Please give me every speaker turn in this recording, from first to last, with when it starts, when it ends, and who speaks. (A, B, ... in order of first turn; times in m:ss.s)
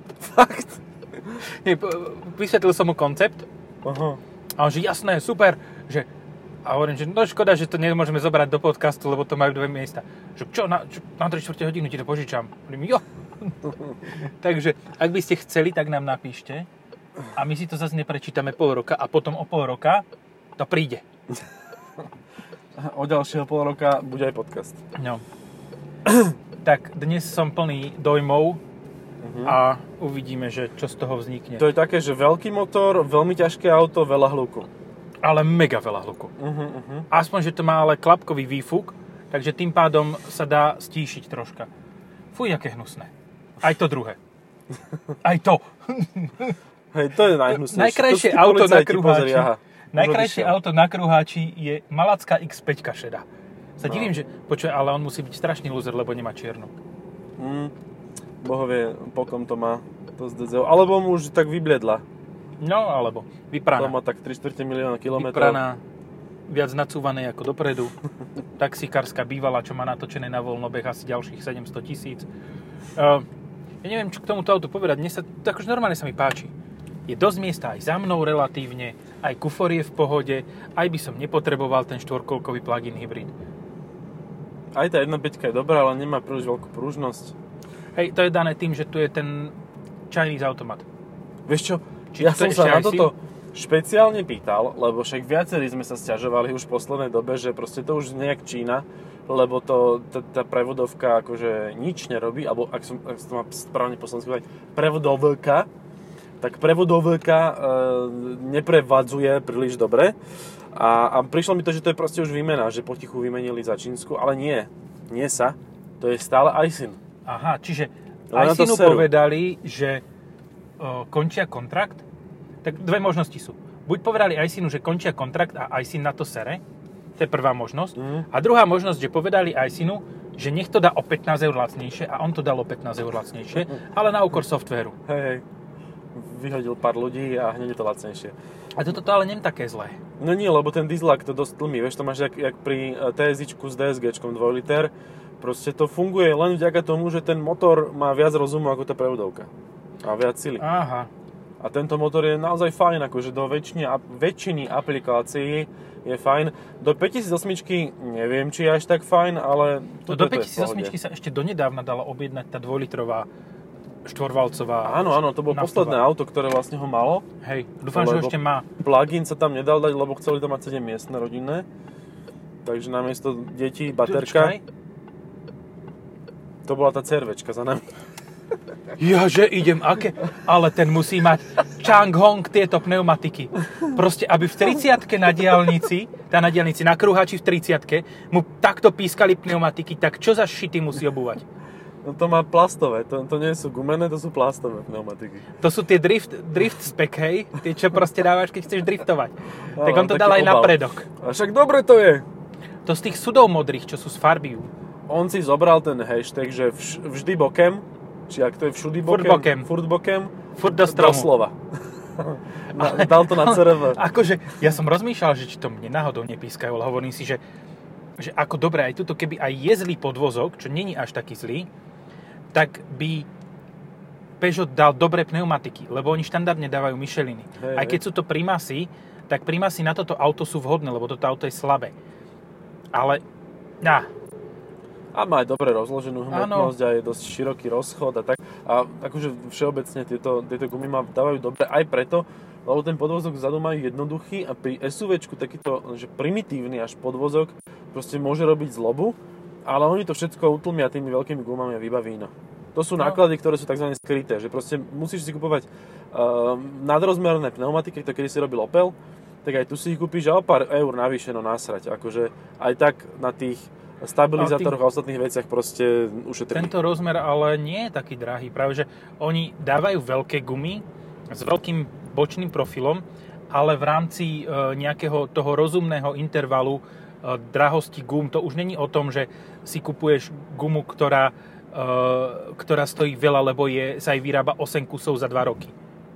0:00.2-0:00.8 A
0:01.4-0:03.5 B
0:03.8-0:04.2 A
0:04.6-0:06.1 B
0:06.6-0:16.7 B
0:17.3-0:20.0 B
0:20.6-0:21.0 B
0:22.8-0:24.8 A
0:25.0-0:25.2 B
0:26.1-0:26.3 A
0:26.6-0:28.6 B
0:29.2-0:29.6 A
0:29.4-0:31.7 B
0:31.6-0:34.7 A
0:35.2-0:36.3 B
0:36.4-0:37.1 A
0:37.1-0:41.7 B
0:42.3-0:44.2 B
0:45.2-0:46.6 B
0:46.9-0:50.6 A
0:47.5-0:53.2 B
0:53.8-0:56.7 B
0:53.8-0:54.1 A
0:57.4-0:57.7 A
0:58.4-1:02.0 A
1:02.6-1:04.0 B
1:03.8-1:05.6 A
1:05.2-1:05.8 B
1:06.5-1:07.9 B
1:08.6-1:12.3 B
1:13.0-1:13.3 B
1:13.8-1:16.5 B
1:17.1-1:23.3 B
1:24.7-1:27.3 A
1:28.0-1:29.5 B
1:30.1-1:30.8 B
1:31.5-1:45.7 A
1:32.1-1:33.1 B
1:46.4-1:50.2 A
1:50.7-1:57.0 A
1:57.3-2:00.0 B
1:58.3-1:59.1 A
2:00.8-2:02.0 B
2:02.6-2:06.6 B
2:07.2-2:15.0 B
2:08.0-2:08.3 A
2:15.1-2:15.4 A
2:16.1-2:18.4 A
2:18.8-2:20.0 B
2:20.2-2:29.5 A
2:30.0-2:30.6 A
2:30.6-2:31.1 B
2:31.6-2:41.0 A
2:40.1-2:43.3 B
2:44.1-2:46.0 B
2:44.8-2:47.2 A
2:47.4-2:48.7 B
2:47.9-2:51.7 A
2:52.6-2:54.6 A
2:54.0-2:54.6 B
2:56.6-2:57.8 A
2:59.0-3:11.4 B
3:12.0-3:15.4 A
3:15.6-3:21.1 B
3:19.7-3:22.2 A
3:22.9-3:24.7 B
3:25.1-3:31.6 A
3:29.0-3:29.7 B
3:30.6-3:31.3 B
3:32.2-3:34.0 A
3:32.8-3:37.4 B
3:38.2-3:41.7 B
3:42.5-3:43.3 B
3:44.4-3:51.9 B
3:47.6-3:48.0 A
3:52.9-3:53.2 B
3:53.8-3:54.1 B
3:55.1-4:26.7 A
3:56.3-3:56.8 B
4:24.4-4:24.8 B
4:26.5-4:45.7 B